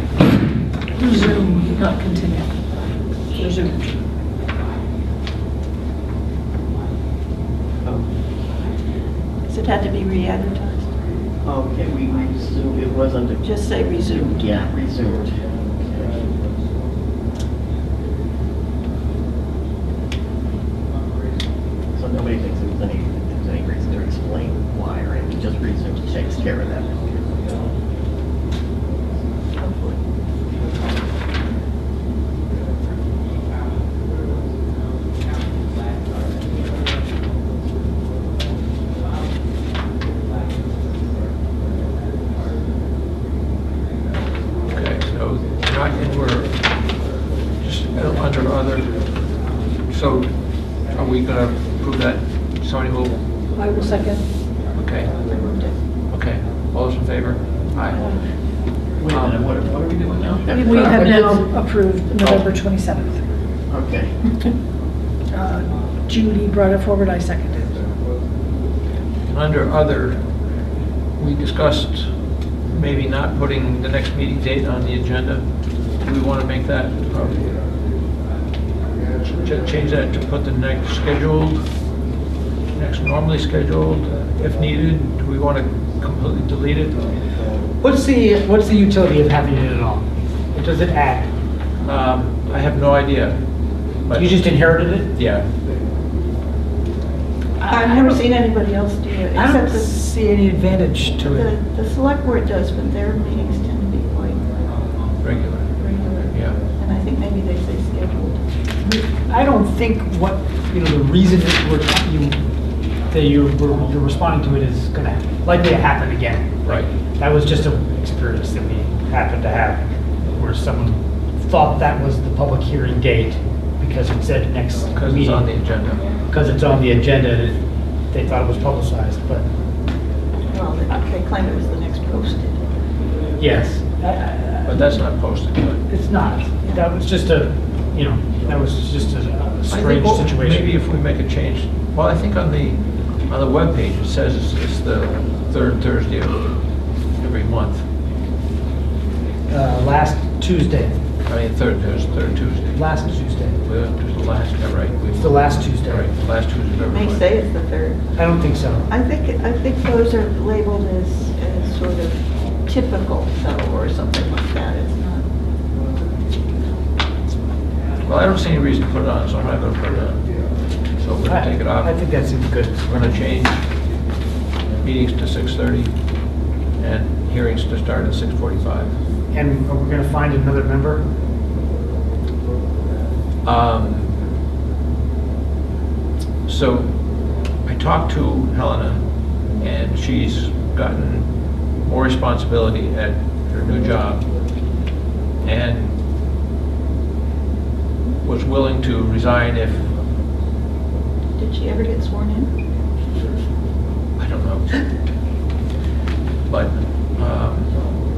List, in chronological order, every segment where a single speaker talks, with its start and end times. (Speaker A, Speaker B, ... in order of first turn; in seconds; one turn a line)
Speaker A: 1.0-2.5
Speaker A: 3.3-3.9
Speaker B: 7.8-8.1
Speaker C: 9.5-10.9
Speaker B: 11.4-13.5
Speaker C: 13.4-14.4
Speaker B: 14.0-16.3
Speaker B: 21.9-27.4
Speaker C: 29.6-30.0
Speaker D: 44.7-46.5
Speaker D: 47.6-48.9
Speaker D: 49.9-50.3
Speaker D: 50.9-53.2
Speaker A: 53.5-54.2
Speaker D: 54.8-55.1
Speaker C: 55.3-55.8
Speaker D: 56.1-58.0
Speaker C: 57.9-58.2
Speaker B: 59.0-61.4
Speaker D: 59.1-59.5
Speaker A: 60.5-63.2
Speaker E: 61.0-61.4
Speaker B: 63.7-64.1
Speaker A: 65.3-67.8
Speaker D: 69.3-70.2
Speaker D: 71.2-72.1
Speaker D: 72.7-75.4
Speaker D: 76.0-77.4
Speaker D: 79.2-81.6
Speaker D: 82.7-87.1
Speaker E: 87.8-91.3
Speaker D: 91.8-93.4
Speaker D: 94.0-94.4
Speaker E: 94.1-95.1
Speaker D: 95.1-95.5
Speaker E: 97.6-98.3
Speaker C: 97.6-99.9
Speaker E: 99.3-101.5
Speaker C: 101.2-104.4
Speaker D: 105.2-105.7
Speaker C: 105.8-108.4
Speaker E: 108.8-112.4
Speaker E: 113.1-119.8
Speaker D: 116.7-116.9
Speaker E: 120.3-125.5
Speaker D: 125.0-126.0
Speaker E: 126.3-127.6
Speaker E: 128.1-129.4
Speaker C: 130.5-132.6
Speaker E: 133.4-134.9
Speaker D: 134.7-135.8
Speaker E: 135.9-140.8
Speaker D: 139.7-146.4
Speaker D: 147.2-147.8
Speaker E: 149.5-151.0
Speaker D: 151.2-152.8
Speaker E: 152.7-153.6
Speaker D: 153.6-157.3
Speaker E: 155.2-156.1
Speaker C: 156.9-158.1
Speaker E: 158.2-158.9
Speaker C: 158.9-165.2
Speaker D: 168.1-170.2
Speaker D: 171.0-171.9
Speaker E: 171.3-172.9
Speaker D: 172.8-173.6
Speaker D: 174.8-175.9
Speaker D: 176.8-178.9
Speaker E: 179.3-181.0
Speaker D: 183.4-184.1
Speaker D: 186.5-186.9
Speaker D: 187.7-189.0
Speaker D: 189.6-191.3
Speaker D: 191.8-194.2
Speaker D: 195.4-195.9
Speaker D: 198.2-199.9
Speaker C: 201.4-202.5
Speaker D: 204.2-204.8
Speaker D: 206.5-207.7